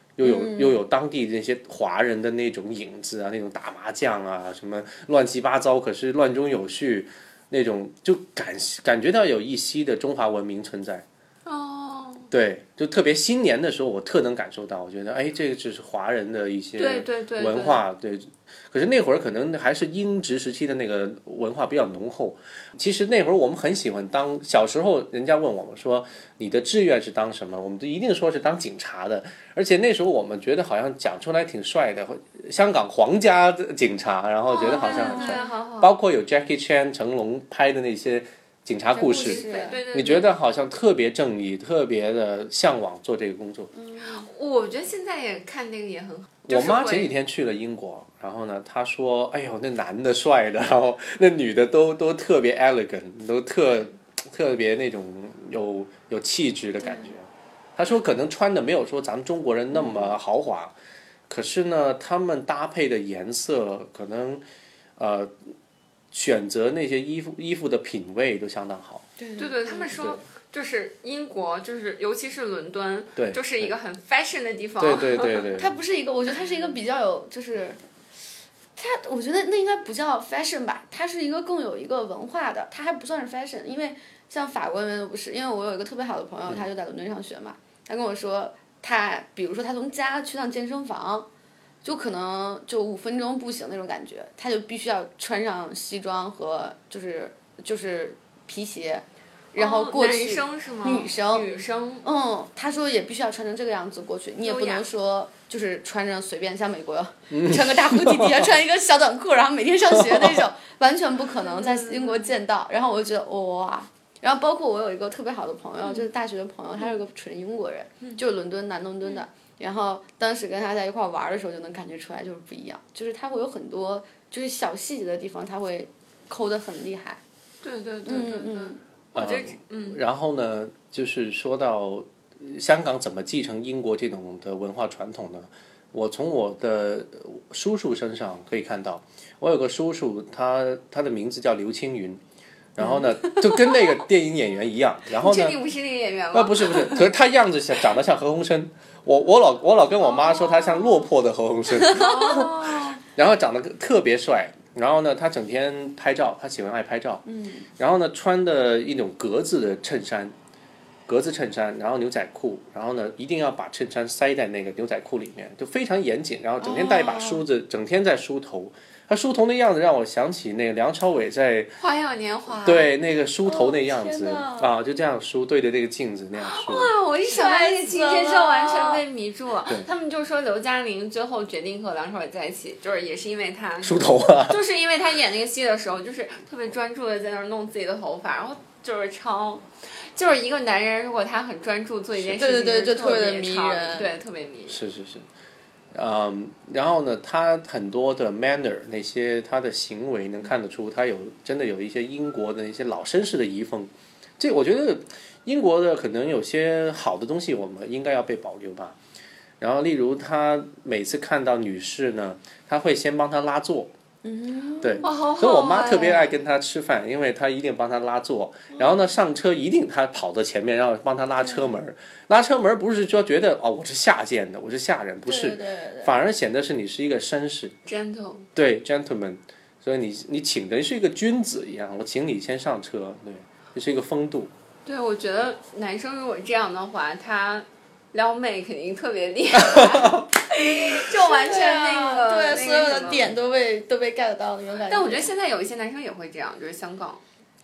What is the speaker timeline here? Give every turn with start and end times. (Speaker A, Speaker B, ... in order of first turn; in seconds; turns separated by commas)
Speaker A: 0.2-11.0, Speaker B: 0.2-0.8, Speaker C: 11.4-12.3, Speaker A: 12.3-43.7, Speaker C: 16.8-17.8, Speaker C: 34.5-36.0, Speaker B: 34.5-35.5, Speaker C: 38.9-40.3, Speaker B: 39.1-39.8, Speaker B: 43.7-44.3, Speaker C: 44.1-47.1, Speaker A: 46.4-60.7, Speaker B: 59.7-60.1, Speaker A: 61.3-64.4, Speaker A: 65.0-65.3, Speaker A: 66.1-69.1, Speaker B: 69.2-70.0, Speaker C: 69.4-75.5, Speaker A: 73.2-73.7, Speaker A: 74.8-75.7, Speaker B: 75.5-77.8, Speaker B: 78.8-91.3, Speaker B: 91.8-101.5, Speaker C: 99.5-102.0, Speaker B: 102.0-127.2, Speaker C: 104.4-104.8, Speaker A: 107.3-108.5, Speaker A: 109.9-110.5, Speaker C: 111.5-112.3, Speaker C: 127.6-130.0, Speaker B: 128.0-128.8, Speaker A: 129.1-142.2, Speaker A: 142.8-145.6, Speaker B: 142.8-143.1, Speaker C: 145.1-147.1, Speaker A: 146.3-157.2, Speaker C: 151.9-153.0, Speaker B: 157.2-157.7, Speaker A: 157.8-160.3, Speaker A: 161.1-171.7, Speaker B: 166.6-167.4, Speaker C: 171.8-172.9, Speaker A: 172.6-176.9, Speaker B: 173.4-174.7, Speaker C: 176.4-194.8, Speaker B: 177.3-179.0, Speaker A: 183.8-184.6, Speaker A: 192.1-192.4, Speaker B: 192.3-194.1, Speaker A: 194.7-195.3, Speaker A: 195.9-209.0, Speaker A: 209.6-213.9, Speaker B: 214.2-215.1, Speaker A: 214.8-227.7, Speaker C: 215.0-216.4, Speaker B: 221.4-221.7, Speaker B: 225.2-226.1, Speaker C: 227.8-228.4, Speaker A: 228.5-234.5, Speaker C: 234.8-243.3, Speaker A: 239.7-240.2, Speaker B: 241.1-245.3, Speaker C: 244.9-247.2